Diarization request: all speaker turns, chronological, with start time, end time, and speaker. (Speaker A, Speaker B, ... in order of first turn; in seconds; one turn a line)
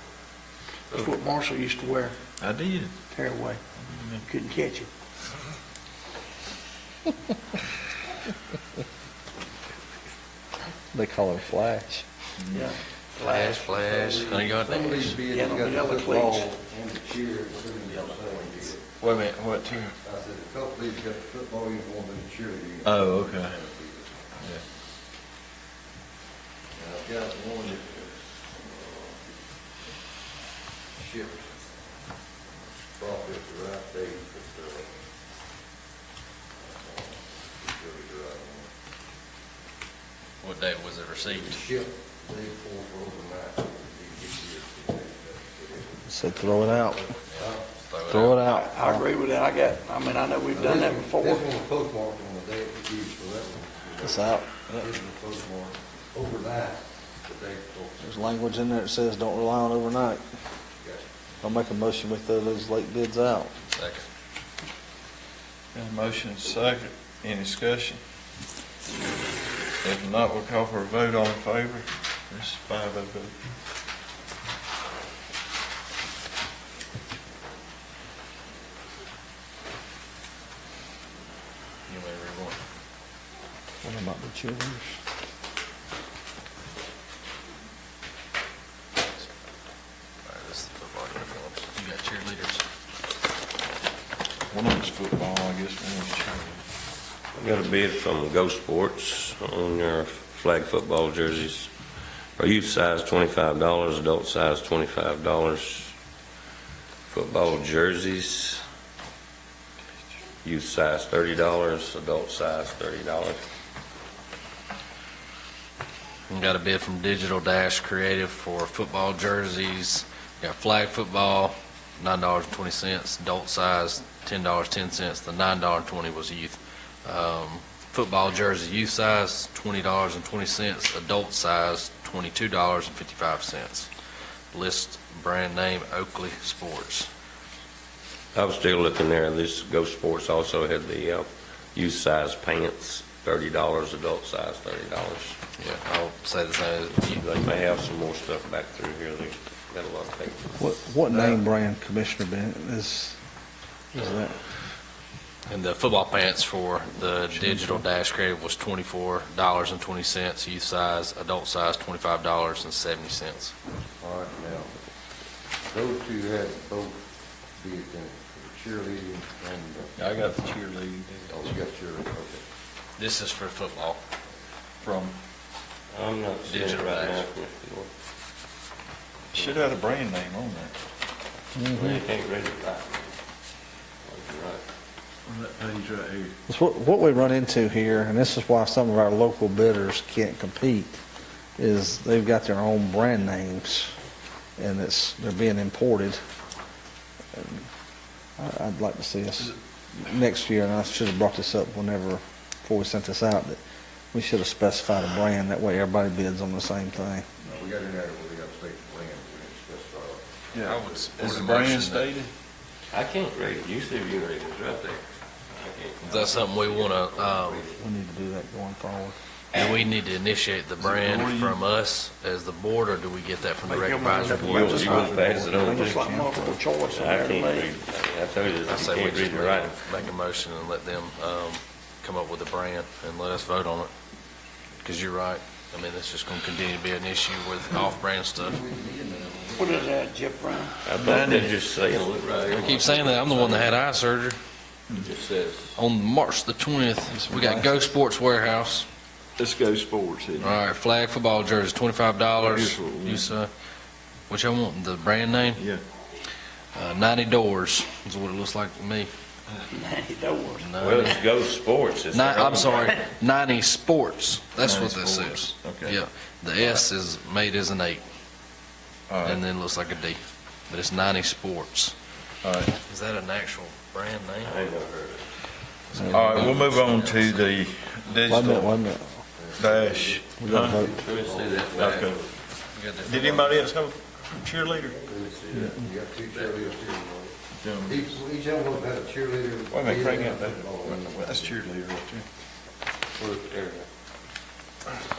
Speaker A: 0.9-2.1
Speaker B: 2.4-2.9
Speaker A: 3.1-3.6
Speaker B: 3.8-4.3
Speaker A: 4.3-4.9
Speaker C: 10.9-12.1
Speaker B: 12.4-12.7
Speaker A: 12.5-13.9
Speaker D: 13.2-15.2
Speaker E: 13.8-18.9
Speaker A: 15.2-16.5
Speaker B: 19.0-20.0
Speaker E: 20.0-24.3
Speaker B: 22.8-23.6
Speaker E: 26.7-29.2
Speaker E: 30.9-31.5
Speaker E: 32.8-34.9
Speaker E: 36.6-38.7
Speaker D: 40.4-41.6
Speaker E: 41.2-47.6
Speaker C: 46.1-47.1
Speaker D: 47.1-48.4
Speaker C: 48.1-49.1
Speaker A: 48.5-51.5
Speaker E: 50.5-58.2
Speaker C: 54.0-54.7
Speaker C: 58.0-60.2
Speaker E: 60.8-61.1
Speaker C: 61.4-63.5
Speaker D: 63.7-64.1
Speaker B: 65.7-68.0
Speaker B: 69.8-73.3
Speaker D: 81.9-82.6
Speaker C: 83.8-85.0
Speaker D: 90.2-92.6
Speaker B: 94.5-96.6
Speaker F: 97.3-101.7
Speaker F: 102.4-105.9
Speaker F: 107.1-108.6
Speaker F: 110.4-113.4
Speaker D: 116.3-133.9
Speaker D: 134.5-137.1
Speaker F: 138.3-145.4
Speaker D: 145.6-147.2
Speaker F: 147.1-150.7
Speaker C: 150.6-153.2
Speaker C: 153.9-154.4
Speaker D: 155.5-163.5
Speaker E: 164.0-164.7
Speaker E: 165.7-167.0
Speaker E: 167.6-169.9
Speaker B: 169.9-171.4
Speaker E: 171.3-172.4
Speaker D: 173.0-174.0
Speaker B: 174.8-175.2
Speaker F: 175.9-177.9
Speaker D: 176.4-177.3
Speaker B: 179.3-180.7
Speaker C: 181.6-182.0
Speaker F: 181.6-183.2
Speaker F: 184.0-184.6
Speaker B: 185.3-186.3
Speaker C: 186.5-191.0
Speaker C: 191.6-193.9
Speaker C: 194.6-196.2
Speaker C: 197.3-197.7
Speaker C: 198.4-203.6
Speaker C: 204.1-207.3
Speaker E: 207.4-211.1
Speaker B: 210.5-212.3
Speaker D: 210.6-212.1
Speaker F: 212.9-217.8
Speaker D: 216.0-217.7
Speaker C: 217.8-219.2
Speaker D: 219.5-225.1
Speaker B: 220.8-221.6
Speaker A: 223.6-225.1
Speaker F: 224.4-226.0
Speaker C: 224.8-226.6
Speaker A: 225.7-227.7
Speaker F: 226.8-229.8
Speaker D: 228.7-233.9
Speaker D: 234.8-238.6
Speaker E: 238.4-239.9
Speaker A: 239.6-240.8
Speaker F: 240.8-243.7
Speaker B: 240.9-241.5
Speaker D: 242.5-244.4
Speaker F: 245.0-245.8
Speaker D: 245.7-248.9
Speaker C: 247.1-247.8
Speaker B: 249.4-250.6
Speaker D: 250.4-253.5
Speaker B: 252.4-253.3
Speaker D: 254.3-255.6
Speaker B: 255.6-255.8
Speaker D: 256.7-259.1
Speaker A: 259.7-260.7
Speaker D: 260.6-261.2
Speaker F: 260.8-263.0
Speaker D: 262.1-268.0
Speaker B: 264.6-266.0
Speaker B: 269.1-269.4
Speaker D: 269.2-271.9
Speaker B: 272.4-272.7
Speaker D: 272.8-274.6
Speaker F: 274.4-275.3
Speaker D: 275.9-277.4
Speaker B: 276.0-278.8
Speaker C: 278.3-279.2
Speaker E: 279.4-282.0
Speaker B: 279.6-280.9
Speaker C: 280.4-280.9
Speaker F: 280.9-282.3
Speaker B: 281.7-282.2
Speaker D: 282.7-283.7
Speaker B: 283.0-285.1
Speaker E: 285.0-291.6
Speaker F: 285.2-285.7
Speaker B: 287.6-288.1
Speaker B: 289.7-292.2
Speaker F: 293.2-293.9